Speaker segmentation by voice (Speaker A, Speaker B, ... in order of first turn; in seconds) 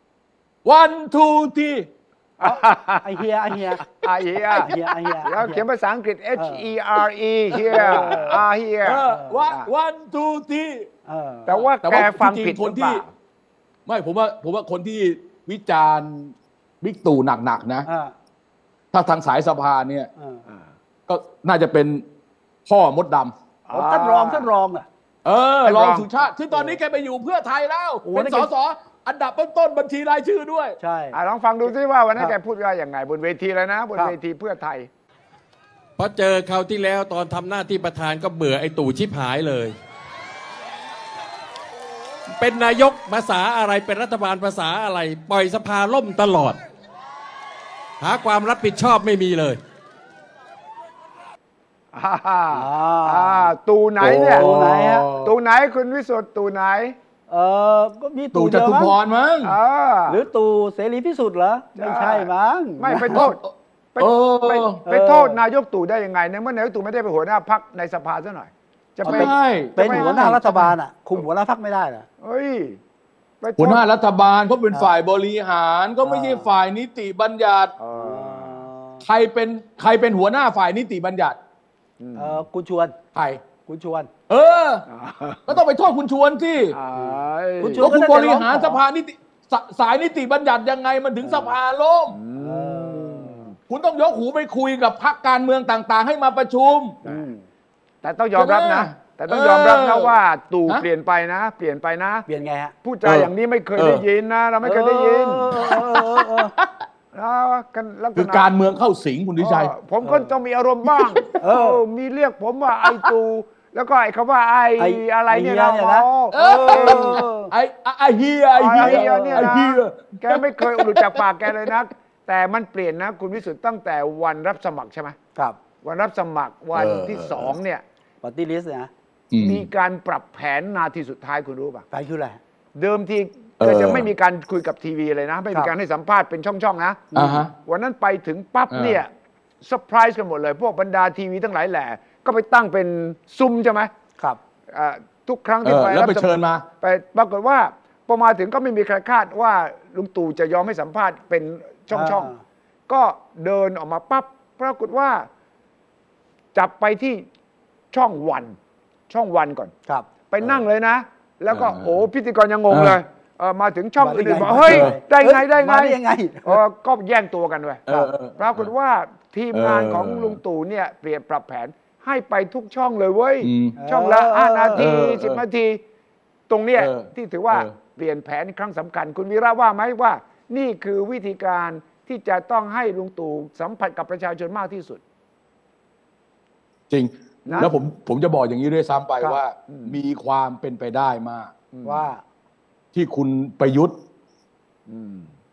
Speaker A: 0.7-1.9, 7.8-8.2, 8.8-10.9, 11.8-13.0, 13.9-17.9, 18.9-20.1, 21.1-22.0, 22.7-23.3, 25.2-30.8, 54.0-55.3, 58.3-59.5, 63.1-63.5, 64.0-64.8, 69.1-70.7, 73.6-77.7, 79.0-81.4, 83.2-83.4, 84.3-84.9, 85.5-86.8, 87.8-92.2, 93.7-97.0, 98.4-100.1, 103.0-104.0, 105.6-106.7, 108.2-109.7, 110.9-111.3, 116.3-121.7, 126.8-127.5, 129.3-129.7, 133.6-134.1, 137.2-137.5, 138.7-139.0, 145.6-146.7, 161.5-162.0, 162.7-163.0, 164.6-165.0, 167.9-168.6, 169.5-170.4, 173.4-173.8, 174.8-175.4, 176.8-177.8, 186.9-191.5, 192.9-194.0
Speaker B: 2.4-3.2, 3.8-9.7, 11.5-13.1, 23.7-24.5, 25.6-26.1, 31.1-34.9, 51.9-54.5, 55.2-57.0, 59.4-60.2, 61.8-63.4, 64.0-70.4, 72.2-72.8, 73.4-73.8, 77.8-78.6, 82.0-82.4, 84.9-85.6, 86.7-88.0, 92.1-93.5, 98.0-102.3, 102.8-105.6, 107.1-108.5, 109.4-117.2, 118.5-125.2, 125.8-127.8, 129.4-131.8, 132.8-143.9, 144.7-152.3, 152.9-155.3, 156.5-157.3, 157.9-158.6, 159.1-159.7, 160.3-167.8, 168.4-175.8, 176.5-185.0, 187.5-187.7, 189.7-190.0, 191.7-192.1, 194.9-195.3
Speaker C: 2.4-3.9, 4.5-5.6, 6.4-6.7, 7.7-8.4, 9.1-9.4, 11.1-11.6, 17.9-18.1, 20.2-20.4, 23.7-24.9, 28.1-28.5, 30.8-31.2, 52.5-53.5, 54.4-55.1, 57.3-58.9, 60.1-63.2, 64.8-65.4, 69.0-72.1, 76.0-76.5, 77.9-79.0, 82.2-83.0, 83.7-84.1, 87.0-88.8, 91.2-91.6, 92.4-93.5, 97.0-97.4, 102.3-102.7, 104.6-106.5, 110.0-110.3, 111.4-111.8, 114.8-117.5, 118.8-119.5, 128.2-128.9, 131.9-132.4, 137.1-137.4, 151.9-152.4, 164.0-166.6, 173.8-174.8, 191.8-192.2
Speaker D: 36.0-39.8, 42.4-46.6, 48.0-49.6